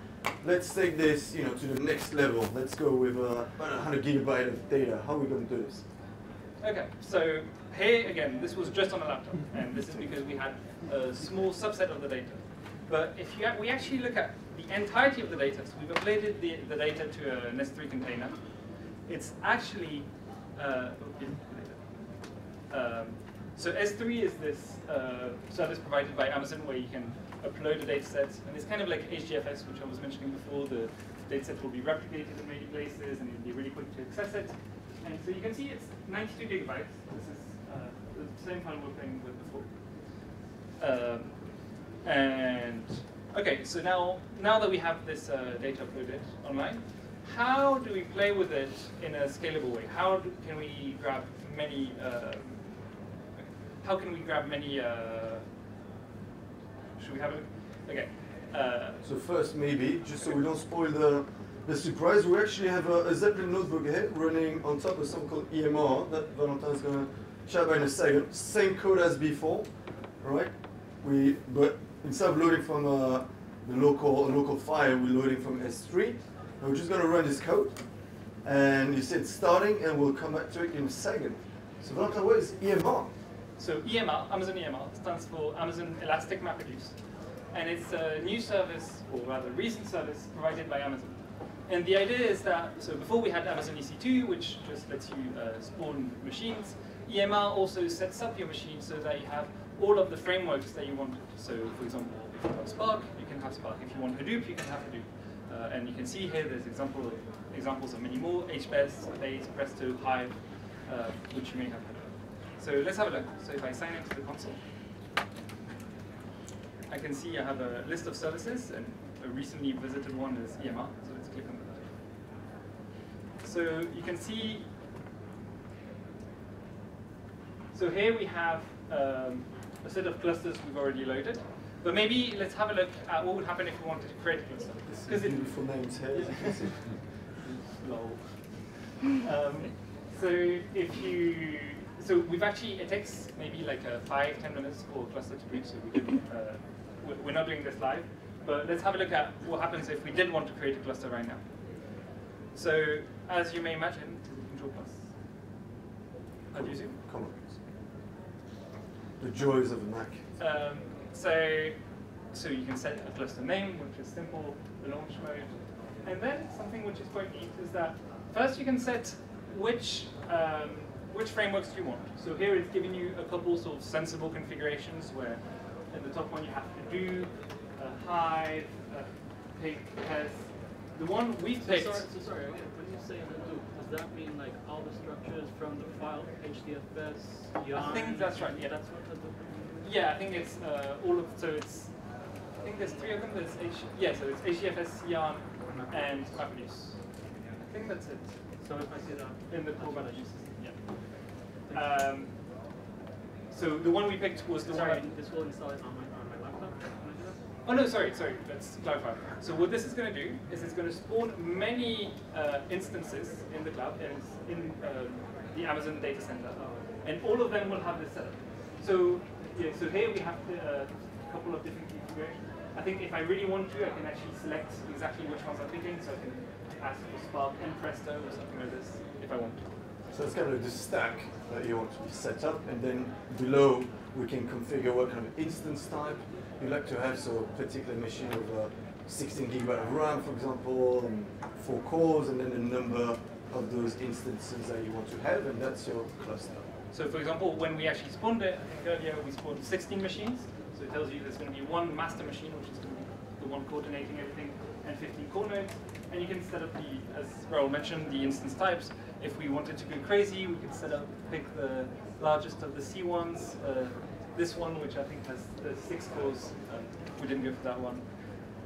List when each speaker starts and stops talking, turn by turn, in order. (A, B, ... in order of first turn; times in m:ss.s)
0:00.3-0:05.9 A
0:06.6-0:39.8 B
0:40.8-0:55.5 B
0:57.0-0:59.0 B
0:59.0-1:17.8 A
1:18.4-1:23.1 A
1:23.6-1:54.6 B
1:56.9-2:02.0 B
2:03.4-2:04.7 B
2:07.7-2:31.9 B
2:14.9-2:17.1 A
2:32.5-2:35.1 B
2:36.5-2:37.0 B
2:36.5-2:37.6 A
2:39.2-2:40.2 A
2:40.4-3:02.1 B
3:01.6-3:09.9 C
3:07.7-3:09.2 B
3:09.8-3:18.7 B
3:15.6-3:16.6 C
3:18.6-3:21.0 C
3:19.5-3:22.4 B
3:21.6-3:22.0 C
3:23.5-3:25.1 B
3:24.6-3:27.4 C
3:27.6-3:49.8 B
3:36.6-3:36.9 C
3:50.1-4:06.6 A
4:06.9-4:28.1 B